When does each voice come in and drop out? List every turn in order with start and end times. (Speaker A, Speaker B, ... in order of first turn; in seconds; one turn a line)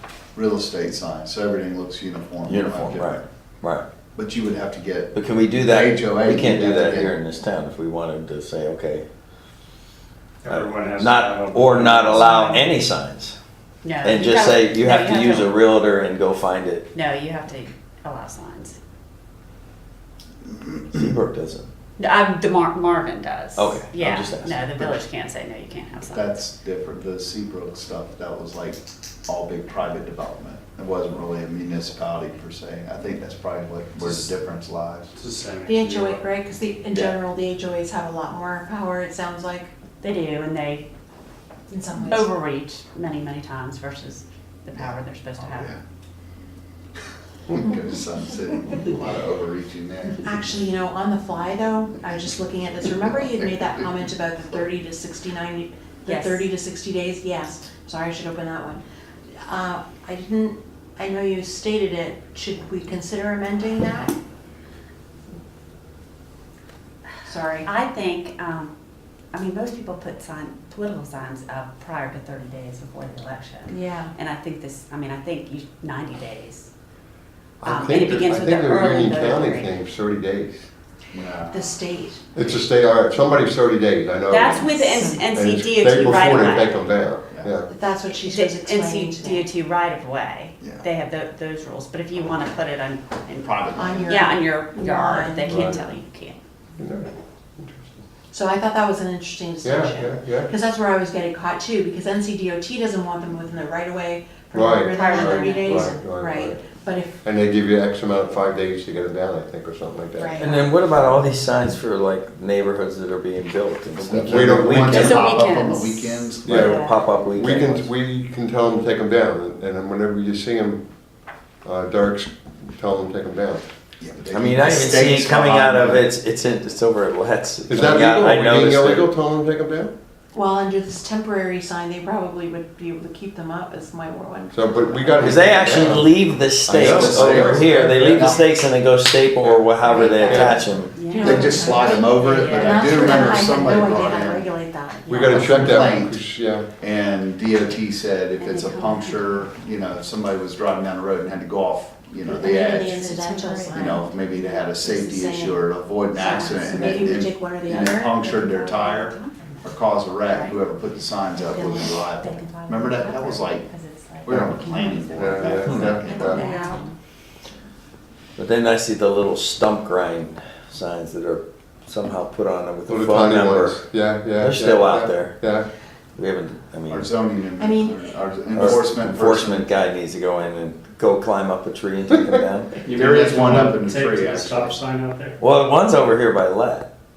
Speaker A: 0.3-3.2
Speaker B: 2.5-3.9
Speaker A: 4.1-7.2
Speaker B: 5.1-9.1
Speaker C: 10.4-12.6
Speaker B: 10.5-13.4
Speaker D: 13.8-15.6
Speaker B: 14.0-16.9
Speaker D: 16.9-18.8
Speaker B: 20.9-21.7
Speaker D: 22.0-26.2
Speaker B: 23.6-24.6
Speaker A: 26.1-35.1
Speaker C: 34.0-34.3
Speaker C: 35.2-36.2
Speaker E: 35.6-39.7
Speaker D: 40.0-40.9
Speaker E: 41.7-42.3
Speaker D: 42.0-45.7
Speaker A: 44.8-45.8
Speaker A: 47.5-50.3
Speaker E: 50.2-58.8
Speaker D: 56.0-56.5
Speaker E: 59.4-64.2
Speaker E: 67.3-67.7
Speaker D: 67.6-68.7
Speaker D: 69.3-76.7
Speaker E: 73.7-74.1
Speaker D: 77.6-79.8
Speaker F: 77.6-80.7
Speaker A: 81.1-81.7
Speaker E: 81.5-82.2
Speaker F: 82.3-87.7
Speaker D: 84.3-86.9
Speaker E: 87.7-89.5
Speaker D: 88.1-96.4
Speaker A: 93.4-94.2
Speaker E: 93.7-95.8
Speaker F: 95.5-95.8
Speaker F: 96.8-98.0
Speaker E: 98.3-107.2
Speaker F: 99.6-100.5
Speaker F: 104.5-106.6
Speaker D: 104.9-106.0
Speaker F: 107.2-110.6
Speaker E: 110.2-110.6
Speaker B: 110.4-115.1
Speaker F: 114.0-115.2
Speaker A: 114.1-116.8
Speaker D: 114.8-117.0
Speaker F: 116.5-120.8
Speaker B: 116.5-117.9
Speaker F: 121.6-123.6
Speaker A: 124.0-126.0
Speaker B: 124.3-129.1
Speaker F: 127.7-129.9
Speaker E: 130.3-135.3
Speaker F: 134.5-136.1
Speaker B: 135.2-141.0
Speaker A: 135.4-136.0
Speaker F: 136.7-138.4
Speaker A: 136.7-138.4
Speaker E: 139.9-145.3
Speaker D: 140.0-143.3
Speaker F: 140.2-140.5
Speaker A: 140.3-144.4
Speaker D: 145.1-145.8
Speaker F: 145.1-146.7
Speaker A: 145.2-146.2
Speaker A: 146.8-153.1
Speaker D: 148.4-149.3
Speaker E: 152.3-158.1
Speaker D: 153.0-154.0
Speaker A: 153.7-163.7
Speaker D: 156.2-160.6
Speaker D: 161.3-166.9
Speaker E: 161.5-162.0
Speaker A: 164.2-166.5
Speaker F: 164.3-164.5
Speaker F: 165.1-166.4
Speaker B: 165.6-166.0
Speaker E: 166.0-166.8
Speaker B: 168.3-173.9
Speaker F: 172.9-175.7
Speaker B: 174.4-175.5
Speaker B: 176.1-177.1
Speaker A: 176.9-179.7
Speaker E: 177.6-178.0
Speaker B: 178.5-182.8
Speaker C: 182.8-185.4
Speaker A: 182.9-184.8
Speaker B: 185.4-186.9